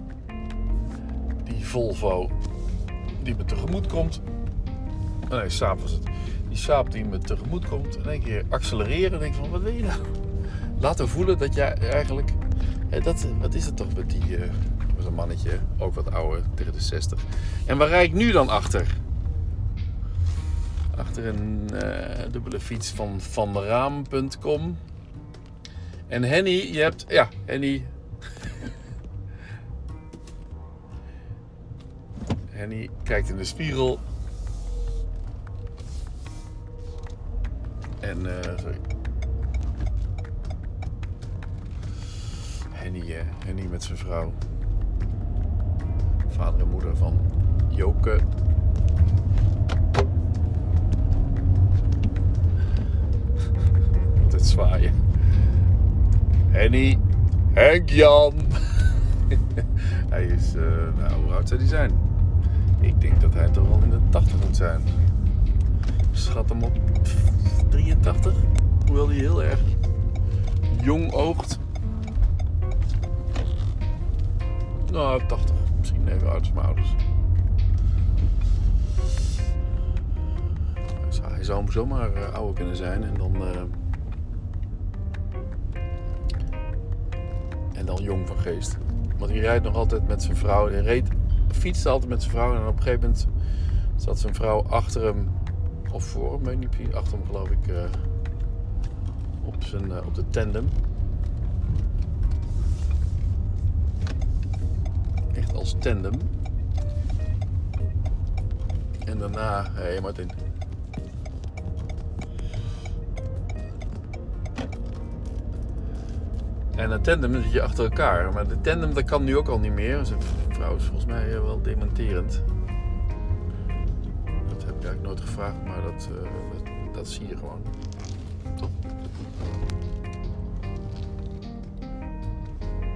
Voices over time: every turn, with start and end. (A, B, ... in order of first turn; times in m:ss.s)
0:01.4-0:02.4 A
0:03.2-0:04.2 A
0:05.3-0:10.1 A
0:10.8-0:19.0 A
0:20.9-0:24.8 A
0:26.1-0:27.9 A
0:32.5-0:34.0 A
0:38.0-0:38.8 A
0:42.7-0:44.4 A
0:46.3-0:48.2 A
0:54.1-0:55.0 A
0:56.5-1:02.0 A
1:02.8-1:05.0 A
1:06.1-1:09.8 A
1:10.7-1:11.6 A
1:14.9-1:17.0 A
1:21.0-1:23.8 A
1:27.7-1:33.3 A
1:34.0-1:38.0 A
1:39.4-1:40.8 A
1:45.3-1:46.3 A
1:49.1-1:50.4 A
1:56.8-2:02.5 A
2:04.4-2:07.7 A